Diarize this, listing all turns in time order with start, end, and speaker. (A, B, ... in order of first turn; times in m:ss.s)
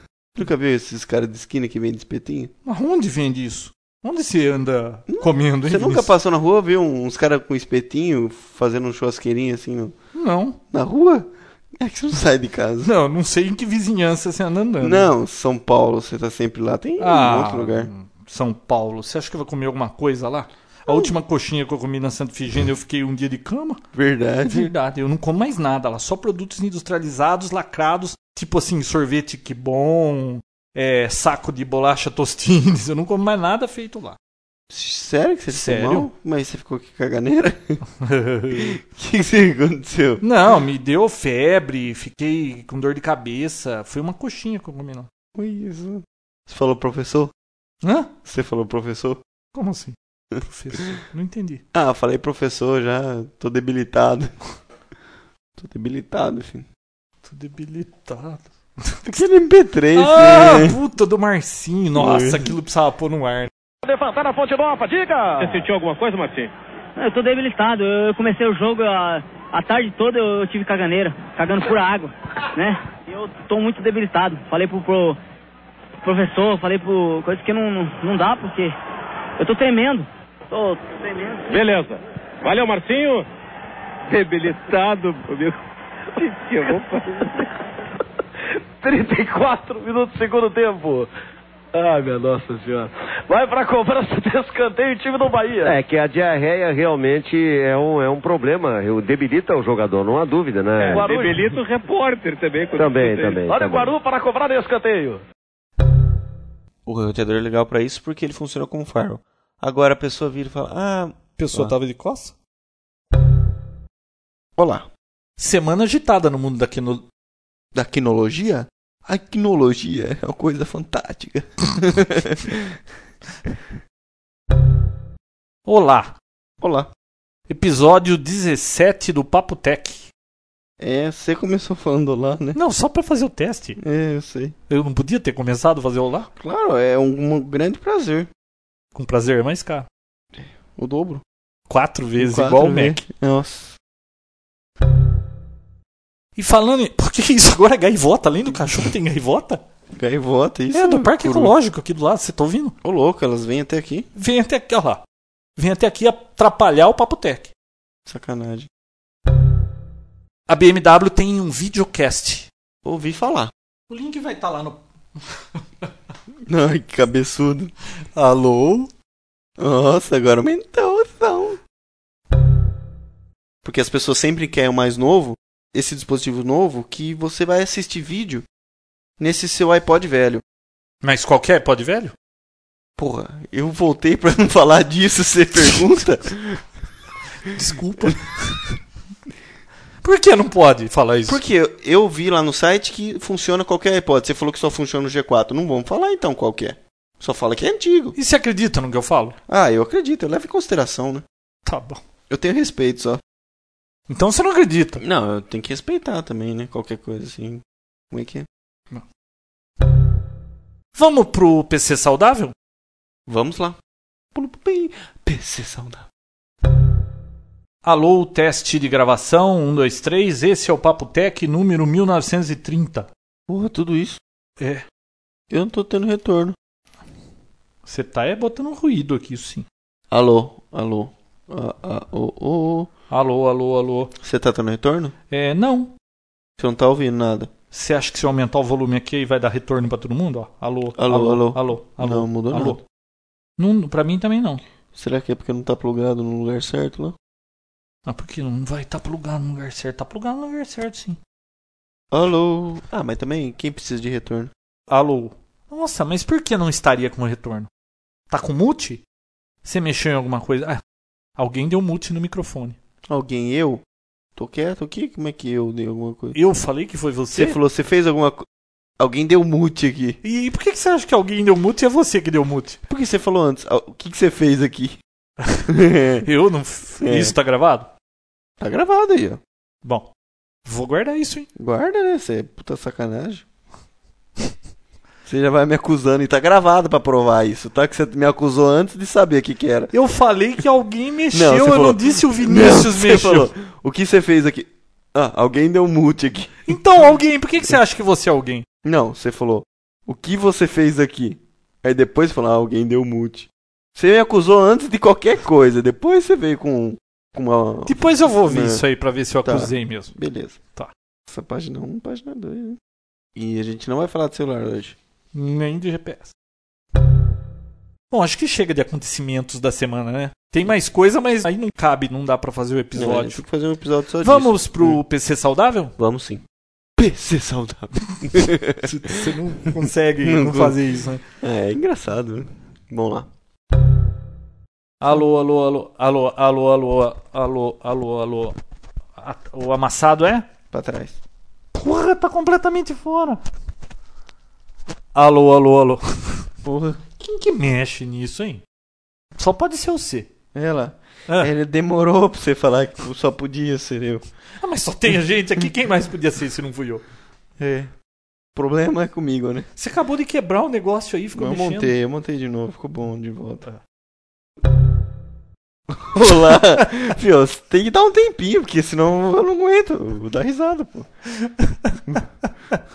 0:00.4-0:02.5 A
0:02.7-0:06.1 B
0:05.1-0:10.0 A
0:10.2-0:10.6 B
0:10.7-0:12.9 A
0:12.8-0:15.1 B
0:14.8-0:17.9 A
0:17.0-0:23.8 B
0:23.9-0:24.7 A
0:24.5-0:34.2 B
0:34.7-0:37.8 A
0:35.5-0:36.1 B
0:38.0-0:38.8 B
0:38.5-0:40.2 A
0:40.2-0:45.1 B
0:45.4-0:47.3 A
0:47.8-0:48.1 B
0:48.3-0:49.2 A
0:49.5-0:51.6 B
0:51.7-0:54.3 A
0:55.6-0:56.7 A
0:57.2-0:59.2 B
0:59.1-1:00.8 A
0:59.9-1:03.5 B
1:02.0-1:02.6 A
1:03.8-1:05.6 C
1:05.4-1:06.5 D
1:07.0-1:15.2 E
1:16.0-1:18.8 E
1:19.4-1:21.4 E
1:21.5-1:23.3 D
1:24.1-1:25.6 D
1:26.2-1:27.3 D
1:26.6-1:27.0 C
1:28.8-1:31.1 C
1:31.7-1:35.8 C
1:35.6-1:41.4 F
1:40.8-1:43.4 D
1:40.9-1:41.4 C
1:42.8-1:43.9 F
1:43.4-1:45.2 C
1:46.9-1:51.7 A
1:51.4-1:52.4 B
1:54.6-1:54.9 A
1:55.4-1:57.0 B
1:57.7-2:02.8 A
2:05.7-2:06.2 B
2:06.6-2:06.9 A
2:07.5-2:10.1 B
2:10.8-2:12.6 A
2:12.6-2:13.8 B
2:13.8-2:14.6 A
2:14.7-2:16.3 B
2:16.4-2:18.3 A
2:19.0-2:19.9 B
2:20.3-2:21.2 A
2:21.7-2:23.0 B
2:22.2-2:23.8 A
2:26.4-2:29.6 B
2:29.9-2:31.5 A
2:30.7-2:32.8 B
2:32.8-2:34.1 A
2:34.2-2:35.0 B
2:35.6-2:37.5 B
2:38.1-2:38.7 A
2:40.5-2:42.5 B
2:42.8-2:43.5 A
2:43.9-2:44.8 B
2:45.6-2:45.9 B
2:46.5-2:47.7 A
2:48.2-2:48.9 B
2:49.6-2:51.6 A
2:53.6-2:58.5 A
2:59.2-3:00.4 A
3:01.0-3:02.1 B
3:03.0-3:06.7 A
3:07.5-3:08.8 B
3:10.0-3:11.4 B
3:11.3-3:18.2 A
3:18.2-3:19.4 B
3:19.5-3:21.2 A
3:21.7-3:22.0 B
3:22.3-3:23.2 A
3:24.1-3:25.0 B
3:25.0-3:28.5 A
3:31.0-3:32.5 B
3:33.3-3:33.8 A
3:34.3-3:36.1 A
3:37.8-3:43.1 B
3:43.5-3:44.2 A
3:44.6-3:44.8 B
3:45.5-3:46.6 A
3:47.8-3:49.7 B
3:50.1-3:52.9 A
3:53.1-3:54.1 B
3:54.2-3:55.2 A
3:55.3-3:56.0 B
3:56.6-3:57.5 A
3:57.7-4:02.8 B
4:01.0-4:02.8 A
4:03.6-4:04.6 B
4:04.9-4:07.2 A
4:08.1-4:11.2 B
4:12.1-4:14.5 A
4:14.9-4:17.7 B
4:18.3-4:19.0 B
4:19.6-4:20.8 B
4:21.4-4:22.8 B
4:23.1-4:23.8 A
4:24.4-4:26.4 A
4:26.3-4:27.6 B
4:27.3-4:28.5 A
4:29.0-4:30.2 A
4:30.2-4:32.8 B
4:32.9-4:35.0 A
4:35.7-4:36.3 A
4:36.2-4:37.9 B
4:37.0-4:37.4 A
4:38.6-4:39.4 A
4:39.8-4:40.1 B
4:40.6-4:41.5 B
4:41.6-4:43.5 A
4:45.3-4:49.9 A
4:49.9-4:53.5 B
4:51.3-4:56.8 A
4:56.7-4:58.7 B
4:58.8-5:08.8 A
5:07.9-5:10.1 B
5:09.4-5:10.6 A
5:11.3-5:12.8 A
5:13.4-5:15.0 A
5:15.3-5:16.3 B
5:18.1-5:23.4 B
5:23.0-5:25.0 A
5:24.2-5:26.0 B
5:26.0-5:26.4 A
5:27.0-5:33.3 A
5:28.8-5:31.2 B
5:35.0-5:38.6 B
5:39.2-5:40.5 B
5:40.7-5:41.2 A
5:41.7-5:43.4 B
5:45.2-5:46.5 B
5:46.6-5:47.0 A
5:47.2-5:48.6 B
5:49.4-5:50.3 B
5:50.5-5:54.3 A
5:54.6-5:57.0 B
5:57.6-5:57.9 A
5:58.6-5:59.7 A
5:59.8-6:01.9 B
6:01.4-6:03.7 A
6:05.9-6:11.1 A
6:11.4-6:12.0 B